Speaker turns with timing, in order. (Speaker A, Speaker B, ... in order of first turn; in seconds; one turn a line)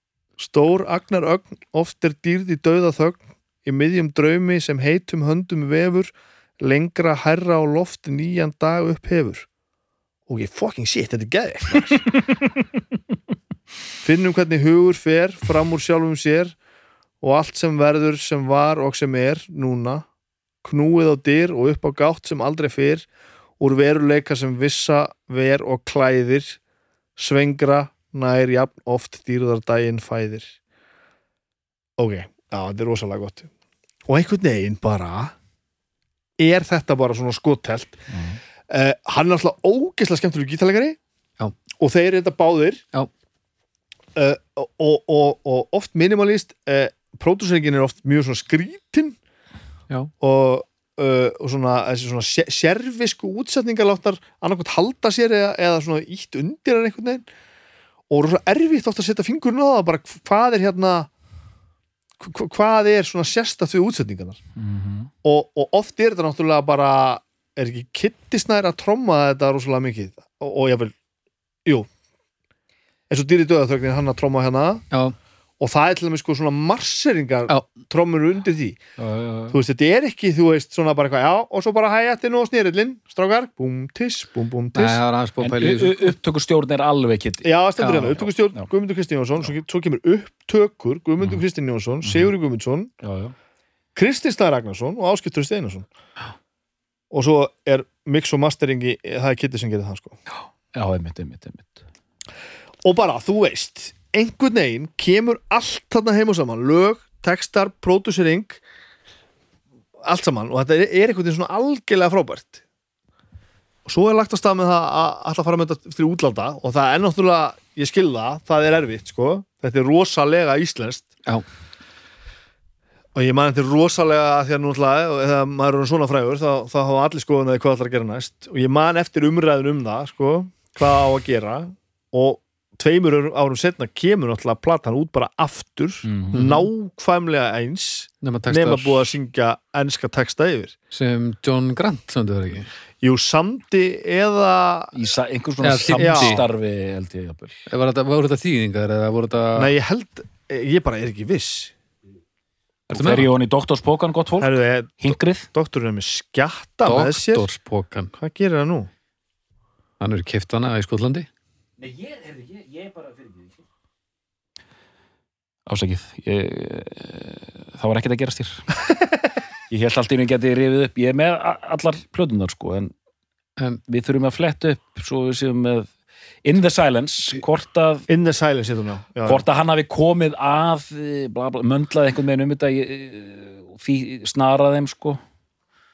Speaker A: 0.4-9.4
Speaker A: 10.3-12.1
Speaker A: 14.0-16.6
Speaker A: 17.2-20.0
Speaker A: 20.6-23.1
Speaker A: 23.6-26.6
Speaker A: 27.2-30.5
Speaker A: 32.0-33.5
Speaker A: 34.1-35.3
Speaker A: 36.4-38.0
Speaker B: 38.1-38.4
Speaker A: 38.7-41.0
Speaker A: 41.8-42.8
Speaker A: 44.1-49.1
Speaker A: 50.2-57.2
Speaker A: 58.1-61.1
Speaker A: 62.2-64.4
Speaker B: 64.6-65.1
Speaker A: 65.2-70.9
Speaker A: 73.1-74.8
Speaker C: 74.9-75.2
Speaker A: 75.6-78.8
Speaker B: 79.0-79.6
Speaker A: 79.5-85.0
Speaker C: 84.7-86.1
Speaker B: 85.4-88.7
Speaker A: 87.4-92.9
Speaker B: 92.0-92.3
Speaker B: 93.0-93.3
Speaker A: 93.9-95.8
Speaker A: 97.1-100.2
Speaker B: 100.7-101.8
Speaker A: 102.8-108.6
Speaker A: 110.0-112.6
Speaker A: 113.8-121.1
Speaker A: 123.1-140.7
Speaker B: 136.0-136.4
Speaker C: 136.3-136.7
Speaker C: 138.2-139.1
Speaker C: 140.9-142.7
Speaker A: 143.0-144.9
Speaker B: 144.9-147.6
Speaker C: 145.6-146.4
Speaker A: 145.9-146.4
Speaker C: 147.7-149.7
Speaker A: 149.5-151.7
Speaker C: 152.9-153.3
Speaker B: 152.9-155.5
Speaker A: 154.4-157.5
Speaker C: 156.8-158.1
Speaker A: 158.2-158.9
Speaker C: 160.0-161.3
Speaker B: 161.8-163.6
Speaker B: 165.7-168.7
Speaker B: 169.7-172.9
Speaker B: 173.9-175.9
Speaker B: 176.4-178.1
Speaker A: 178.1-179.4
Speaker B: 179.2-185.2